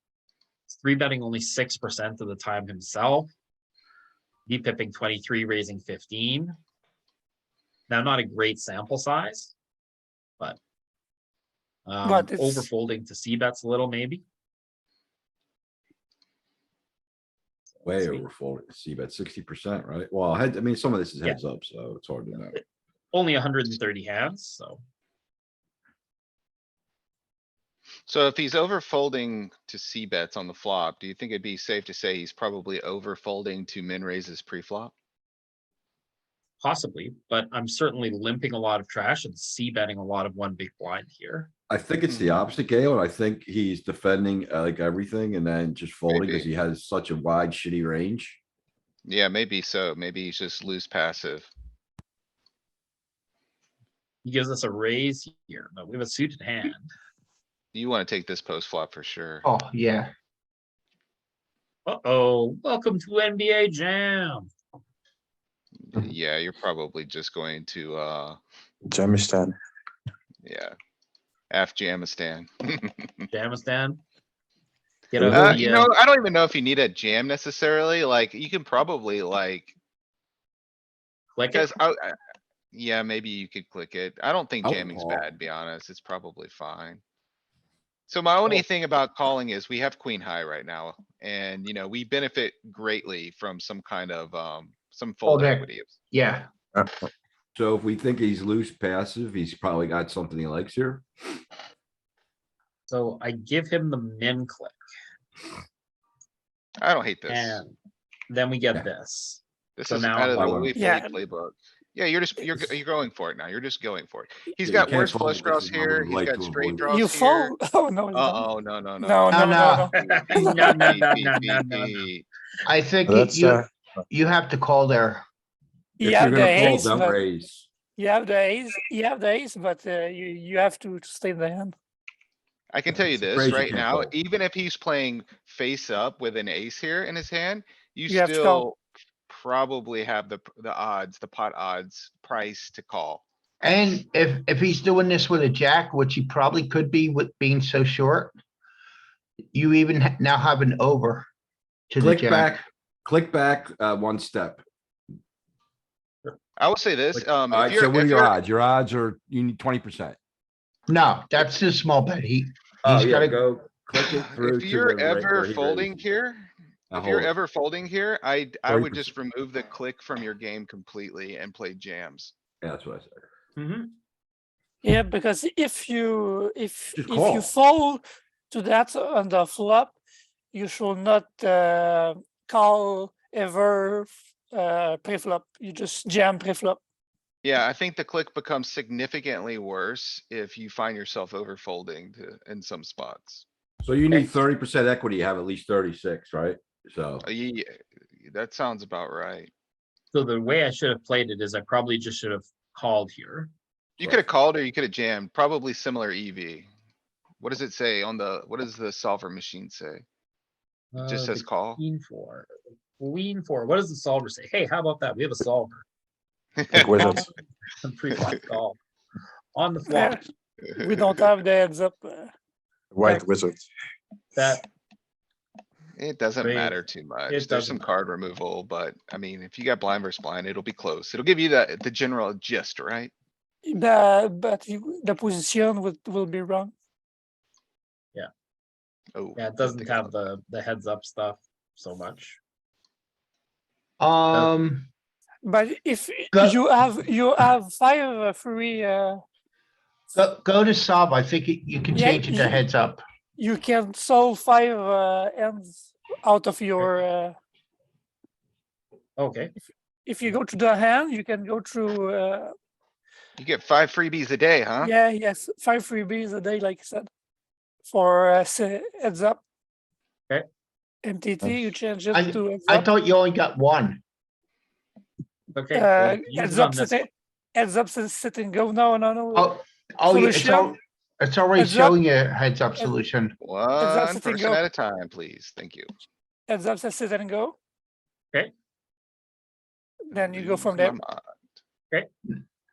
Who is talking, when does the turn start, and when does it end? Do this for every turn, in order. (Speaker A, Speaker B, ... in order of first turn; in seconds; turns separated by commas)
Speaker A: 0.7-3.3, Speaker A: 4.5-6.6, Speaker A: 7.9-9.5, Speaker A: 11.8-14.2, Speaker B: 12.0-12.7, Speaker A: 17.7-18.2, Speaker C: 17.8-22.5, Speaker A: 23.1-24.8, Speaker D: 28.1-34.9, Speaker A: 36.6-41.5, Speaker C: 41.7-48.4, Speaker D: 42.0-42.4, Speaker D: 46.1-46.5, Speaker D: 49.0-51.5, Speaker A: 54.2-56.9, Speaker D: 57.7-59.4, Speaker E: 59.4-60.1, Speaker A: 61.9-64.5, Speaker D: 65.8-68.4, Speaker F: 68.9-69.5, Speaker D: 70.4-70.7, Speaker D: 71.5-73.2, Speaker A: 73.3-74.0, Speaker A: 75.1-75.9, Speaker F: 75.2-75.6, Speaker D: 75.3-79.7, Speaker A: 81.3-81.7, Speaker D: 81.5-82.2, Speaker D: 82.7-87.0, Speaker C: 84.6-85.2, Speaker D: 88.1-95.9, Speaker E: 95.2-96.5, Speaker C: 97.5-101.0, Speaker A: 102.9-104.8, Speaker D: 106.8-107.6, Speaker A: 107.3-107.8, Speaker A: 108.3-110.6, Speaker D: 109.8-117.5, Speaker C: 110.3-110.7, Speaker B: 110.8-111.1, Speaker C: 114.6-116.8, Speaker B: 116.8-118.5, Speaker D: 118.1-122.2, Speaker B: 119.0-120.7, Speaker E: 119.3-119.9, Speaker A: 119.9-122.0, Speaker E: 122.6-125.2, Speaker F: 123.0-123.7, Speaker B: 126.0-127.2, Speaker C: 126.0-127.7, Speaker B: 128.0-131.7, Speaker D: 132.7-143.2, Speaker C: 132.9-134.1, Speaker B: 138.1-138.7, Speaker E: 143.6-148.3, Speaker E: 149.5-151.2, Speaker E: 151.9-152.6, Speaker C: 152.0-154.6, Speaker D: 156.6-158.3, Speaker C: 157.5-160.2, Speaker E: 160.9-163.4, Speaker C: 162.8-166.0, Speaker D: 164.0-172.3, Speaker C: 166.9-167.3, Speaker C: 168.7-169.1, Speaker C: 172.6-173.3, Speaker A: 173.6-173.9, Speaker B: 174.8-179.9, Speaker C: 176.9-177.5, Speaker B: 180.5-186.8, Speaker D: 187.4-193.4, Speaker C: 193.8-197.2, Speaker D: 197.2-199.5, Speaker A: 200.1-203.5, Speaker D: 204.0-206.7, Speaker D: 207.4-210.0, Speaker A: 210.9-215.8, Speaker D: 211.0-211.8, Speaker D: 216.6-217.0, Speaker F: 216.7-217.3, Speaker A: 217.0-217.3, Speaker A: 217.8-218.8, Speaker A: 219.5-220.2, Speaker B: 219.9-220.2, Speaker B: 220.8-222.3, Speaker D: 220.8-221.2, Speaker F: 222.9-223.6, Speaker A: 224.3-224.6, Speaker D: 226.0-233.1, Speaker A: 226.4-227.8, Speaker B: 233.7-236.7, Speaker D: 239.1-240.1, Speaker A: 239.4-242.4, Speaker E: 244.0-244.9, Speaker B: 245.4-249.2, Speaker E: 246.3-246.6, Speaker E: 250.1-253.0, Speaker B: 251.9-252.6, Speaker B: 253.4-257.4, Speaker A: 259.2-259.5, Speaker B: 260.1-262.5, Speaker D: 263.4-264.9, Speaker B: 264.8-267.1, Speaker B: 267.9-269.4, Speaker B: 271.0-272.9, Speaker F: 271.4-271.7, Speaker E: 272.1-274.0, Speaker A: 275.5-277.0, Speaker B: 275.7-279.6, Speaker E: 279.3-283.3, Speaker B: 280.1-280.8, Speaker B: 281.5-282.0, Speaker D: 283.4-285.9, Speaker B: 283.8-284.6, Speaker B: 286.5-287.6, Speaker B: 290.1-291.0, Speaker D: 290.1-291.2